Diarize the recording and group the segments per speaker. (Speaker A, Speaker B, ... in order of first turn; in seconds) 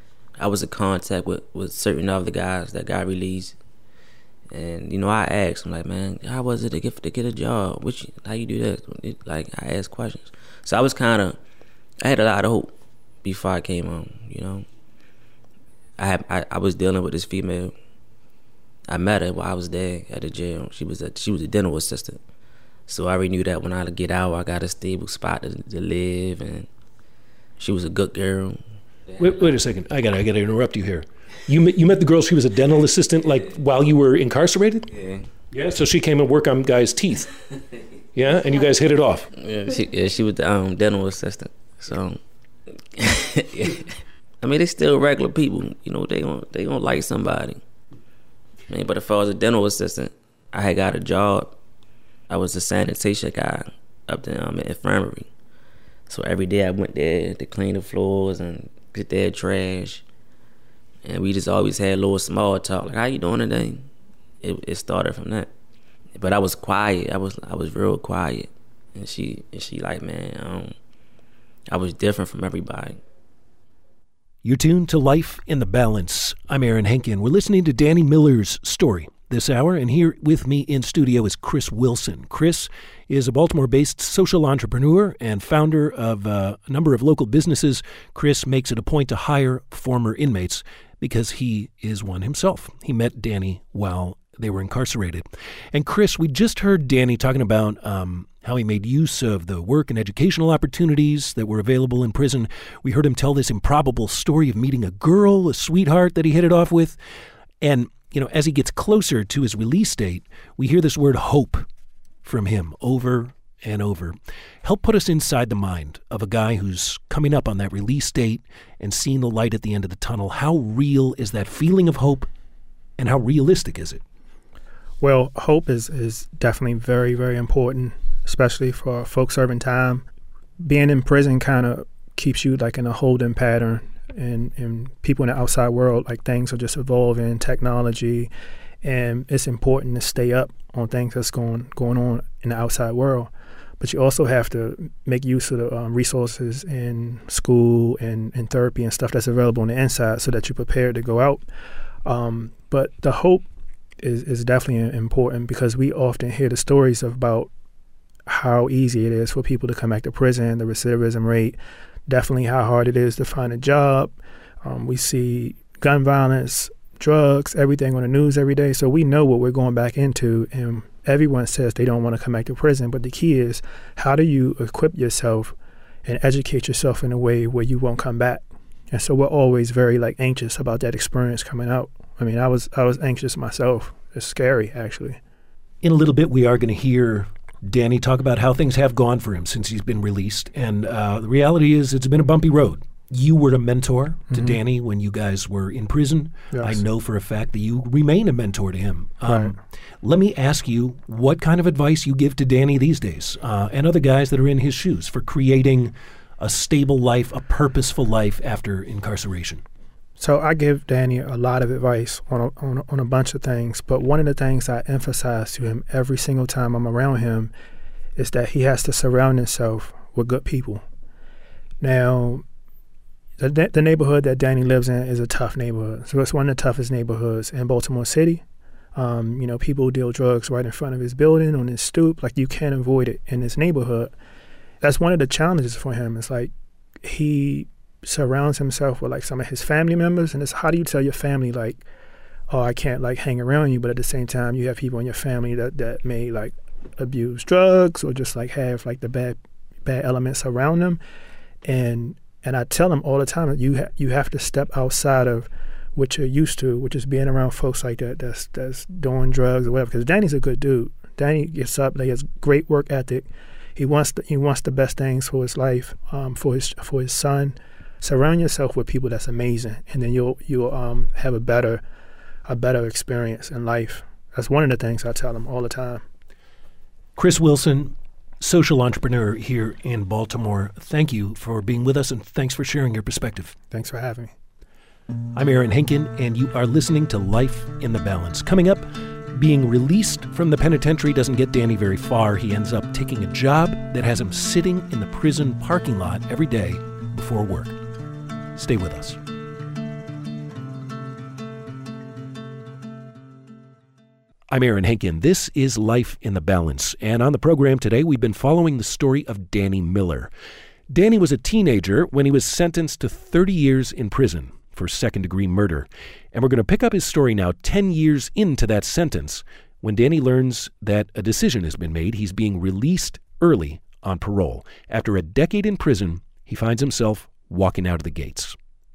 Speaker A: 0.4-3.5, 4.5-11.4, 12.0-12.7, 13.2-14.7, 16.0-17.7, 18.9-22.2, 22.9-26.7, 27.6-29.2, 35.0-35.2, 39.3-42.2, 42.9-47.6, 48.7-51.5, 52.3-55.3, 56.1-60.0, 61.0-63.9, 64.4-65.5, 66.2-70.7, 71.7-73.0
Speaker B: 29.2-34.9, 35.5-37.3, 38.1-39.3, 74.4-107.0, 107.6-111.7, 112.2-122.3, 123.0-124.0, 185.8-209.6, 277.1-283.6, 285.3-297.8, 298.5-299.2, 304.5-310.3, 310.9-328.6
Speaker C: 125.0-130.0, 130.6-138.3, 138.8-151.4, 152.0-153.4, 154.0-157.5, 158.3-161.6, 162.1-185.2, 194.3-194.6, 196.5-196.8, 210.2-217.5, 218.2-220.8, 221.8-222.4, 223.4-228.4, 228.9-234.1, 234.8-241.8, 242.5-251.0, 251.6-271.8, 272.4-276.0, 283.7-284.3